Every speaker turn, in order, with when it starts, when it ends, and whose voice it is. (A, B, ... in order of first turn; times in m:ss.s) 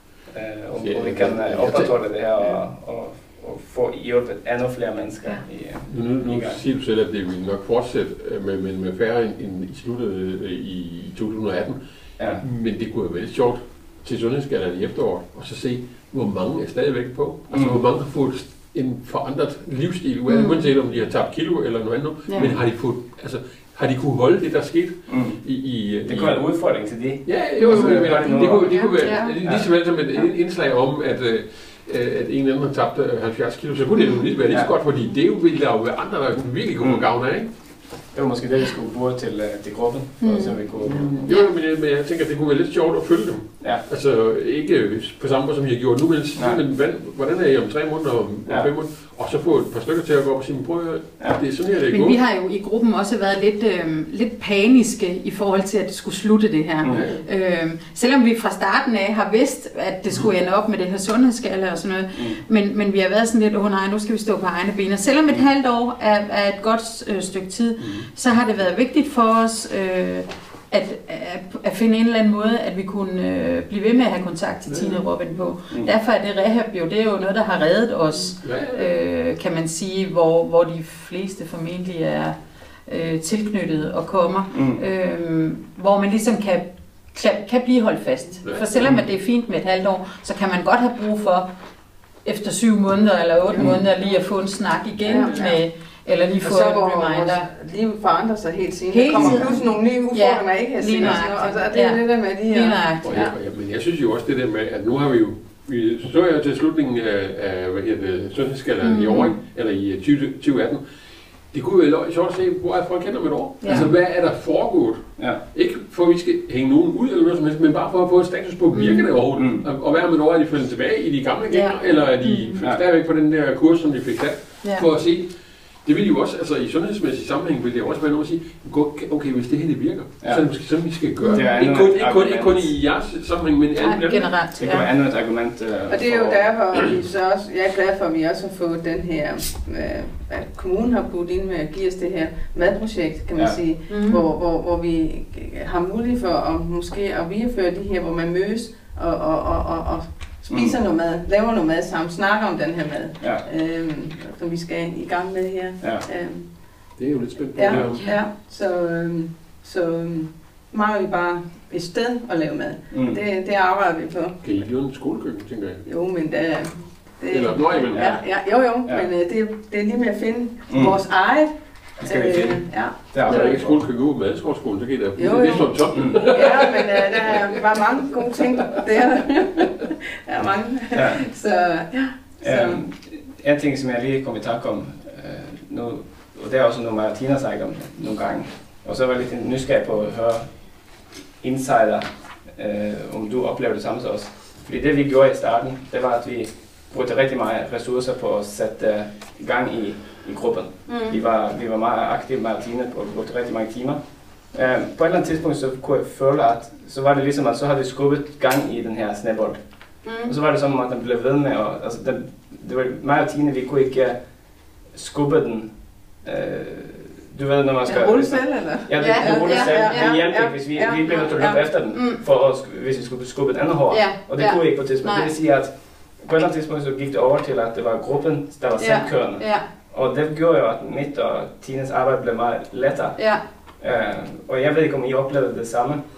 0:00.3-0:06.6 A
0:00.8-0:02.1 B
0:05.8-0:37.5 B
0:12.2-0:12.4 A
0:17.5-0:17.8 A
0:20.3-0:20.7 C
0:22.4-0:22.6 A
0:25.1-0:29.9 A
0:27.6-0:29.3 C
0:34.0-0:34.3 C
0:34.5-0:34.8 A
0:36.8-0:41.3 A
0:40.2-0:40.6 D
0:40.2-0:40.6 C
0:40.8-0:52.2 B
0:41.2-0:41.5 C
0:46.4-0:46.6 A
0:48.5-0:48.7 A
0:51.9-1:31.5 C
0:56.8-0:57.1 A
0:56.9-0:57.3 B
1:02.1-1:02.4 A
1:07.8-1:08.1 B
1:14.7-1:15.0 B
1:18.4-1:18.9 B
1:24.5-1:24.8 A
1:28.4-1:29.0 B
1:32.2-1:37.5 C
1:33.5-1:34.2 D
1:35.0-1:35.6 D
1:36.4-1:42.8 D
1:38.9-1:43.3 C
1:39.1-1:39.5 A
1:43.0-1:50.8 B
1:48.8-1:49.4 C
1:51.4-2:14.4 B
1:53.6-1:53.9 C
1:53.7-1:54.0 A
1:58.7-1:59.1 C
1:59.3-1:59.7 A
2:01.5-2:02.6 C
2:04.6-2:04.9 C
2:10.2-2:12.8 A
2:11.2-2:11.4 C
2:13.8-2:14.9 C
2:14.6-2:16.9 A
2:15.9-2:44.5 D
2:23.9-2:24.2 C
2:30.5-2:30.8 A
2:33.2-2:33.5 A
2:35.8-2:36.1 A
2:37.0-2:38.2 B
2:42.9-2:43.2 A
2:44.4-2:45.9 B
2:45.8-2:53.3 D
2:47.3-2:48.1 B
2:47.9-2:49.1 A
2:50.7-2:51.0 A
2:52.0-2:57.5 B
2:53.1-2:53.9 A
2:55.2-3:02.8 D
2:55.9-2:56.4 A
3:00.9-3:01.3 A
3:02.4-3:56.0 A
3:20.9-3:21.2 C
3:30.0-3:30.4 C
3:37.8-3:41.6 D
3:39.0-3:40.5 C
3:41.1-3:42.2 C
3:43.9-3:45.3 C
3:48.8-3:49.7 C
3:53.2-3:53.4 C